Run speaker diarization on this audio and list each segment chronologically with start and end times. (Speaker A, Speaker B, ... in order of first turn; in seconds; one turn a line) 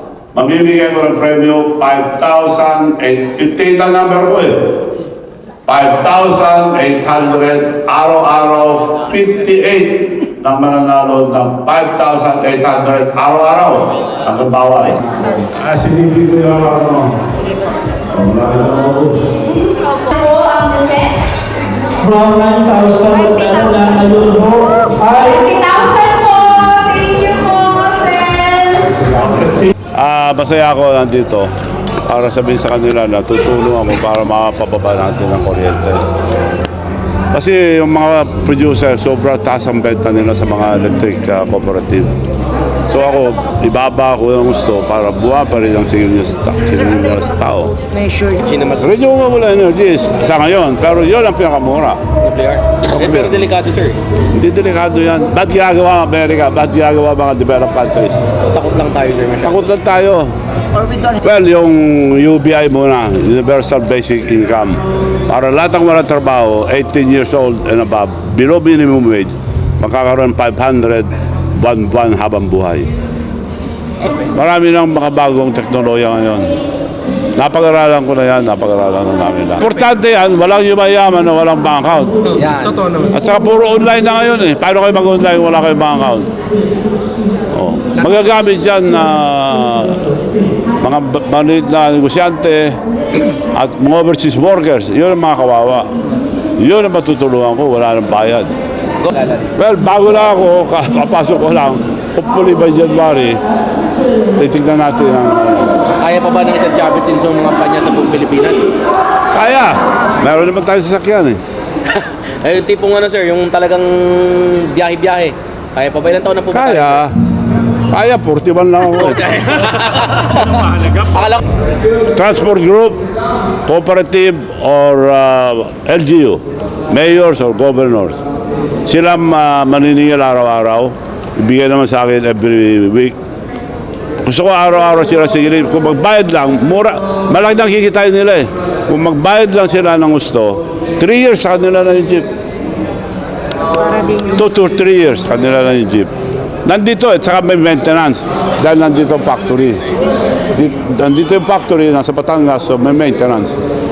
Speaker A: 0.3-4.7
Speaker A: 5.7-17.2
Speaker A: 18.1-19.4
Speaker B: 20.1-21.2
Speaker C: 22.0-25.2
Speaker B: 23.1-28.9
Speaker A: 29.6-31.5
Speaker A: 32.1-36.0
Speaker A: 37.3-42.1
Speaker A: 42.9-47.9
Speaker D: 48.2-48.9
Speaker A: 48.8-52.0
Speaker D: 52.2-54.0
Speaker A: 52.9-53.4
Speaker A: 54.3-58.2
Speaker D: 58.4-59.7
Speaker A: 59.4-60.3
Speaker A: 61.1-72.9
Speaker A: 74.2-76.5
Speaker A: 77.4-82.4
Speaker D: 82.3-83.1
Speaker A: 83.1-86.3
Speaker A: 87.5-90.2
Speaker A: 90.8-92.8
Speaker A: 93.5-95.9
Speaker A: 96.6-98.5
Speaker D: 99.0-99.5
Speaker A: 99.6-103.4
Speaker A: 104.4-105.9
Speaker D: 106.0-108.7
Speaker A: 109.3-111.4
Speaker D: 111.9-117.0
Speaker A: 116.5-117.1
Speaker A: 117.9-119.3
Speaker D: 118.9-121.4
Speaker A: 122.1-123.0
Speaker A: 123.7-128.2
Speaker A: 128.9-133.2
Speaker A: 134.2-142.3
Speaker A: 144.2-146.1
Speaker A: 146.7-149.8
Speaker A: 150.5-153.5